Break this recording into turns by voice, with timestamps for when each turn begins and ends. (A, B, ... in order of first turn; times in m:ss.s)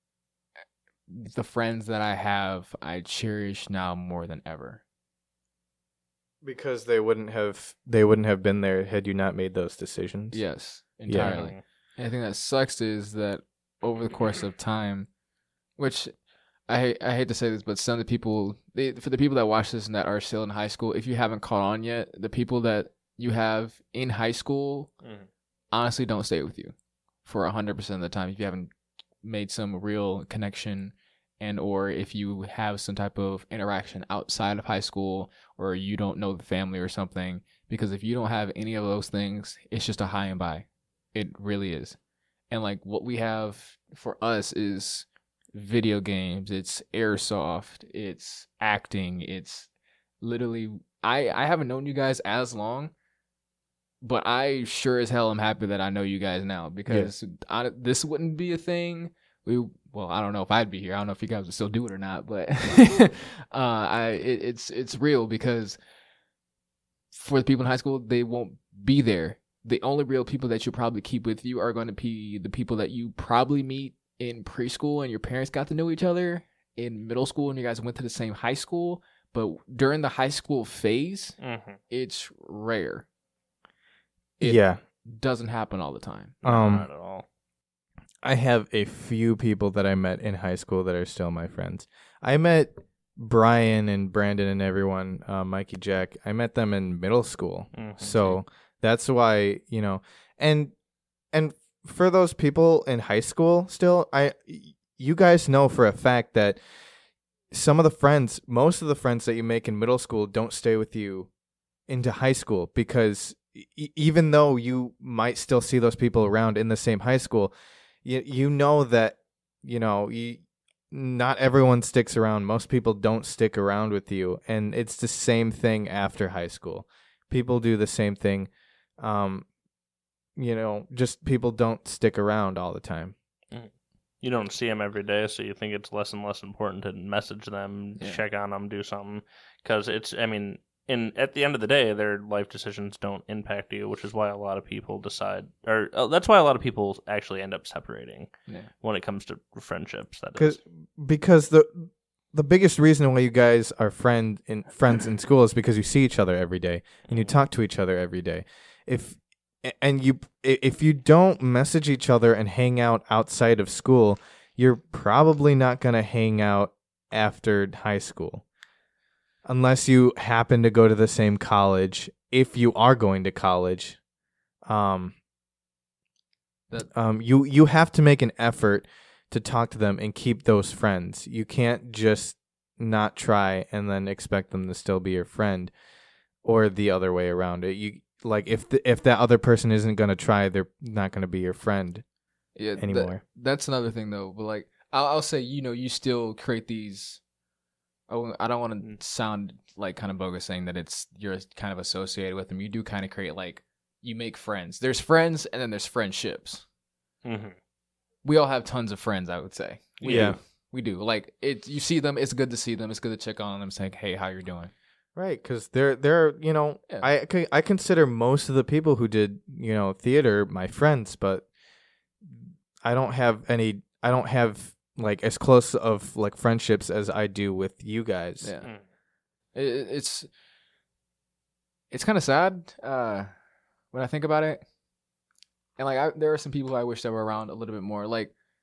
0:01.1-0:04.8 A
0:06.4-0:10.4 B
0:10.3-0:15.1 A
0:11.1-0:11.4 B
0:11.2-0:11.6 C
0:15.8-0:16.1 A
0:16.7-0:24.9 A
0:25.0-0:25.3 C
0:25.7-0:28.7 A
0:29.2-0:42.0 A
0:42.5-0:49.7 A
0:50.2-0:52.9 A
0:54.0-1:05.8 A
1:07.1-1:21.4 A
1:21.4-1:21.8 C
1:21.9-1:23.1 A
1:24.4-1:26.4 A
1:24.4-1:24.8 B
1:26.4-1:27.3 C
1:26.4-1:26.9 B
1:28.2-1:40.7 B
1:37.7-1:38.4 C
1:41.3-1:46.6 B
1:47.5-1:51.3 B
1:51.9-1:57.5 B
1:58.0-2:09.5 B
2:10.4-2:13.2 B
2:13.5-2:28.3 C
2:28.8-2:30.6 C
2:30.4-2:48.4 B
2:37.1-2:37.3 C
2:49.5-2:54.0 B
2:54.7-2:55.2 B
2:56.9-3:05.7 B
3:06.4-3:12.0 B
3:12.6-3:17.2 A
3:12.8-3:13.2 B
3:18.1-3:26.6 A
3:27.2-3:27.6 C
3:28.2-3:34.7 A
3:30.0-3:30.3 C
3:30.1-3:30.4 B
3:35.2-3:41.5 B
3:42.2-3:48.5 B
3:48.4-3:48.7 A
3:49.6-3:50.3 A
3:51.9-3:53.3 A
3:53.9-3:54.6 A
3:55.8-3:58.3 A